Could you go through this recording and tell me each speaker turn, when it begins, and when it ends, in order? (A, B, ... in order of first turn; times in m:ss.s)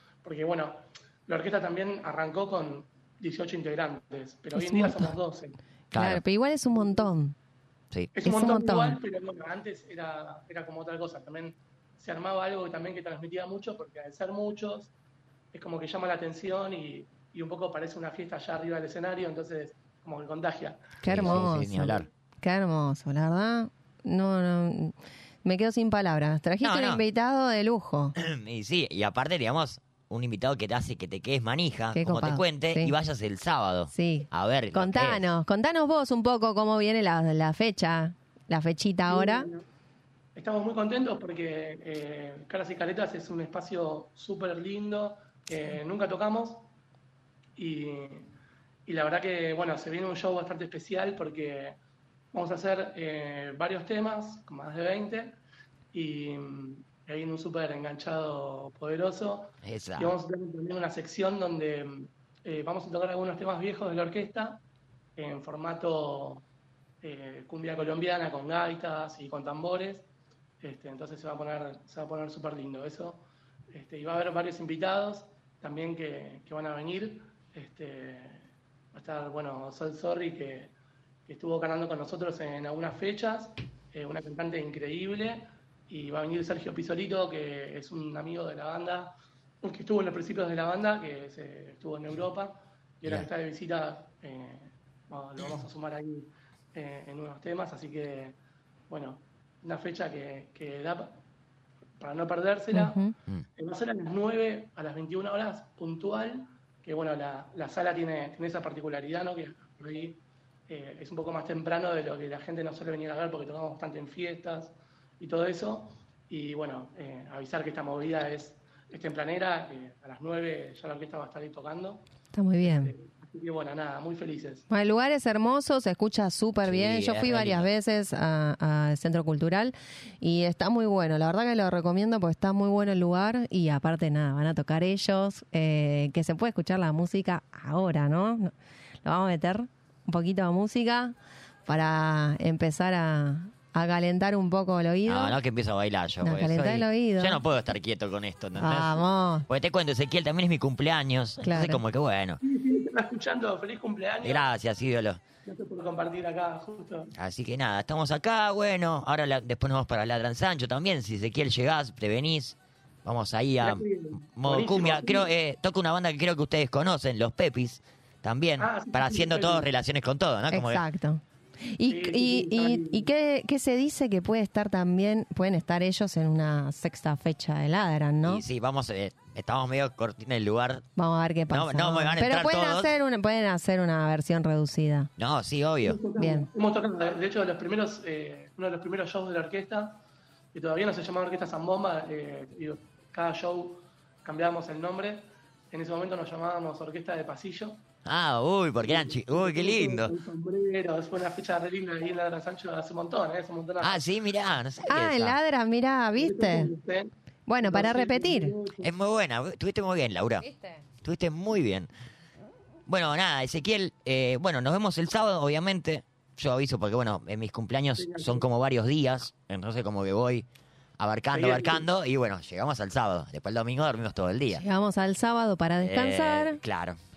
0:00.2-0:05.6 A
0:04.6-0:05.1 B
0:05.9-0:06.2 C
0:05.9-0:07.3 B
0:06.7-0:07.1 A
0:08.1-0:14.9 A
0:08.2-0:09.0 B
0:15.5-0:21.5 A
0:21.0-0:28.1 B
0:21.0-0:22.1 C
0:26.6-0:27.0 C
0:28.2-0:35.3 C
0:32.0-0:32.9 B
0:33.9-0:39.5 B
0:39.0-0:39.6 A
0:40.3-0:46.7 A
0:47.6-0:48.3 A
0:48.8-0:51.8 A
0:52.3-0:55.4 A
0:55.9-1:04.6 A
0:59.6-1:00.1 C
1:05.2-1:06.4 A
1:07.0-1:10.0 A
1:10.6-1:20.7 A
1:21.2-1:38.4 A
1:38.9-1:41.2 A
1:42.0-1:43.0 A
1:42.7-1:43.1 B
1:43.6-2:02.0 A
2:02.3-2:02.9 B
2:02.6-2:04.7 A
2:04.7-2:18.5 B
2:06.6-2:07.7 C
2:19.0-2:21.1 B
2:21.7-2:25.4 B
2:25.0-2:32.4 C
2:26.2-2:27.4 B
2:28.6-2:29.4 B
2:31.4-2:31.8 B
2:32.4-2:34.5 A
2:34.2-2:35.2 C
2:35.4-2:37.1 A
2:37.2-2:50.8 C
2:43.6-2:45.3 A
2:48.6-2:49.7 A
2:50.5-2:58.4 B
2:51.9-2:53.1 A
2:58.2-3:00.8 C
3:01.0-3:05.1 B
3:01.5-3:02.9 C
3:05.2-3:06.0 C
3:05.8-3:10.0 A
3:06.2-3:06.5 B
3:10.5-3:17.8 A
3:18.0-3:20.1 C
3:18.8-3:24.1 A
3:23.8-3:25.4 C
3:24.9-3:26.7 B
3:26.2-3:28.9 A
3:27.5-3:28.5 B
3:28.8-3:30.5 C
3:30.4-3:30.8 B
3:31.0-3:31.9 C
3:32.9-3:40.4 C
3:38.0-3:38.5 A
3:41.0-3:44.6 C
3:41.3-3:41.9 A
3:44.5-3:46.6 B
3:45.8-3:47.0 C